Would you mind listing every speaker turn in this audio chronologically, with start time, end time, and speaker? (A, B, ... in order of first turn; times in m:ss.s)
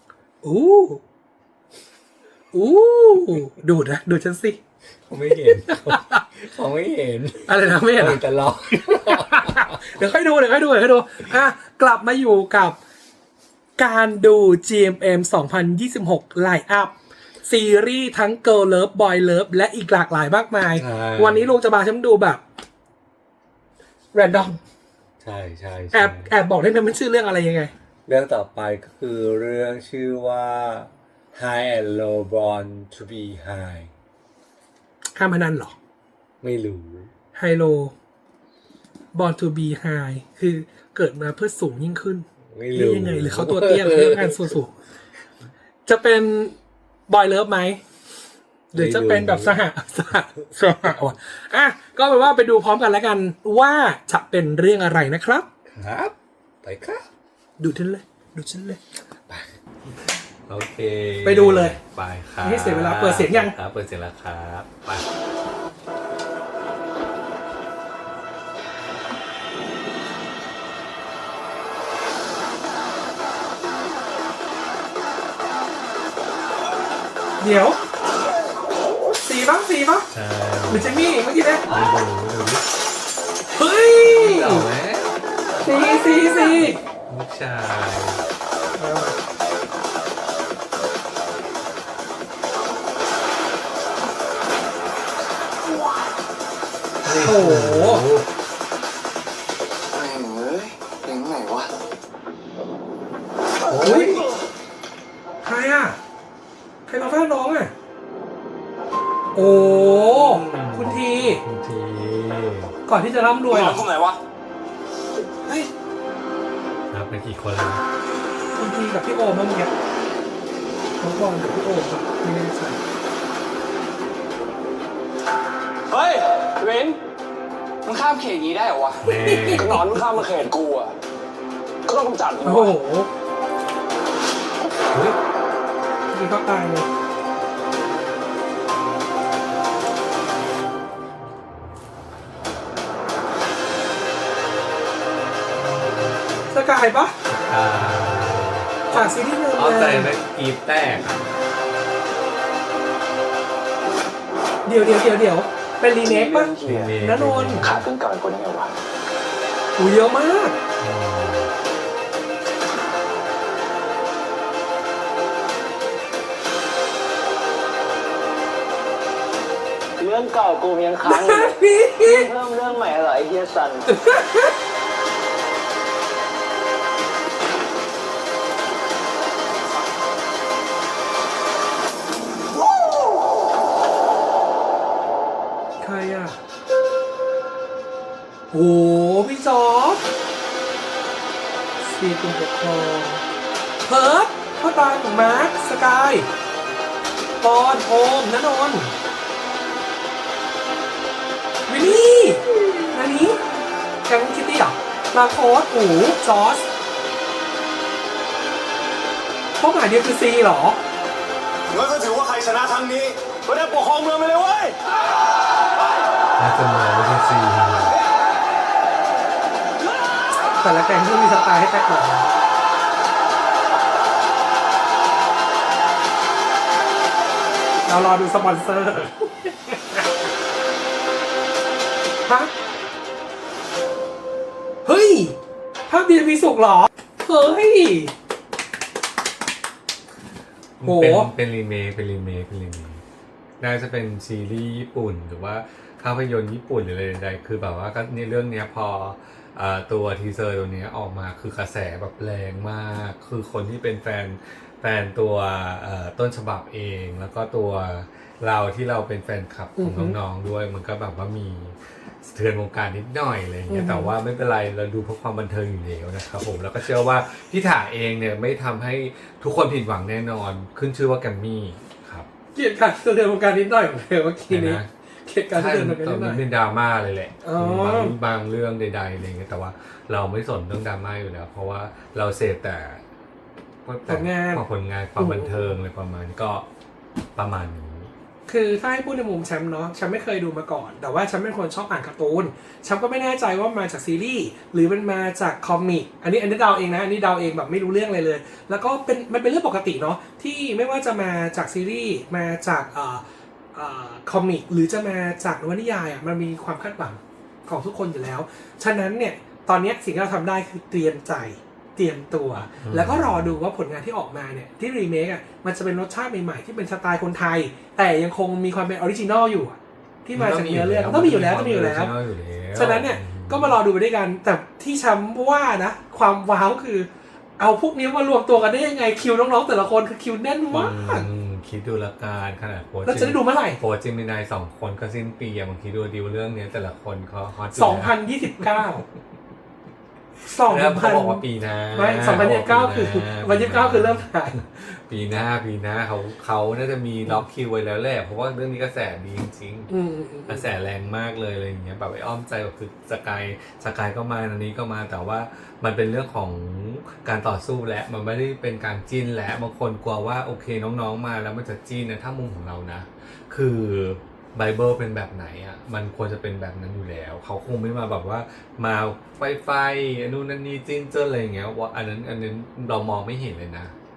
0:00.4-0:01.0 A
0:02.5-0:04.6 A
0:05.1-0:09.8 B
0:05.5-0:06.2 A
0:07.4-0:08.2 A
0:08.8-0:12.8 A
0:13.8-0:22.4 A
0:20.7-0:21.5 B
0:24.1-0:24.6 A
0:25.2-0:26.3 B
0:25.9-0:27.7 A
0:28.1-0:33.9 B
0:35.1-0:35.8 A
0:36.4-0:37.1 B
0:37.3-0:37.9 A
0:39.1-0:44.7 A
0:42.5-0:44.6 B
0:45.8-0:46.6 A
0:47.1-0:47.8 A
0:48.7-0:49.6 B
0:48.7-0:55.5 A
0:55.7-0:57.0 B
0:57.6-0:58.8 A
0:59.3-1:05.1 B
1:01.2-1:01.8 A
1:02.4-1:03.6 A
1:17.4-1:17.8 A
1:19.2-1:20.1 A
1:20.1-1:21.1 B
1:20.7-1:21.7 A
1:21.7-1:22.7 B
1:23.5-1:24.7 A
1:24.0-1:25.8 B
1:25.6-1:26.8 A
1:26.4-1:28.2 B
1:28.8-1:29.2 A
1:37.0-1:38.3 B
1:37.2-1:38.0 A
1:39.9-1:41.7 C
1:43.7-1:44.2 B
1:43.8-1:44.2 A
1:45.4-1:46.0 A
1:46.9-1:47.7 A
1:49.3-1:51.4 A
1:49.9-1:52.8 B
1:52.9-1:53.8 A
1:53.5-1:54.2 C
1:56.9-1:57.8 B
1:58.6-1:59.7 A
2:01.0-2:02.8 A
2:05.9-2:07.0 C
2:07.8-2:10.9 C
2:09.0-2:09.8 B
2:09.0-2:10.0 A
2:11.9-2:12.7 C
2:12.4-2:13.1 A
2:16.1-2:16.9 A
2:26.5-2:27.2 A
2:27.3-2:31.2 B
2:28.9-2:30.1 A
2:34.6-2:37.6 A
2:36.0-2:37.0 C
2:36.6-2:37.9 B
2:37.6-2:38.7 C
2:39.8-2:40.6 A
2:40.8-2:41.5 B
2:50.0-2:53.9 C
2:51.0-2:52.3 A
2:53.9-2:54.5 A
3:05.8-3:06.4 A
3:08.5-3:10.0 A
3:11.8-3:13.2 A
3:13.8-3:16.3 A
3:17.4-3:19.0 A
3:21.7-3:23.4 A
3:24.1-3:26.7 A
3:29.6-3:30.8 A
3:31.7-3:34.8 C
3:36.4-3:38.0 B
3:40.4-3:42.3 A
3:47.9-3:50.1 A
3:52.3-3:52.5 A
3:54.8-3:58.1 A
4:00.8-4:03.0 B
4:00.8-4:01.3 A
4:03.6-4:32.3 B
4:19.8-4:20.2 A
4:23.7-4:24.1 A
4:32.5-4:36.4 A
4:34.5-4:34.9 B
4:35.5-4:43.0 B
4:37.4-4:38.2 A
4:43.8-4:46.6 B
4:44.1-4:44.6 A
4:45.2-4:45.8 A
4:47.4-4:48.1 B
4:48.5-5:22.1 A
5:12.8-5:13.6 B
5:20.3-5:23.8 B
5:22.7-5:31.2 A
5:30.7-5:38.9 B
5:33.1-5:33.8 A
5:37.7-5:39.0 A
5:40.4-5:44.5 A
5:40.5-5:49.9 B
5:49.9-5:50.7 A
5:50.5-6:13.9 B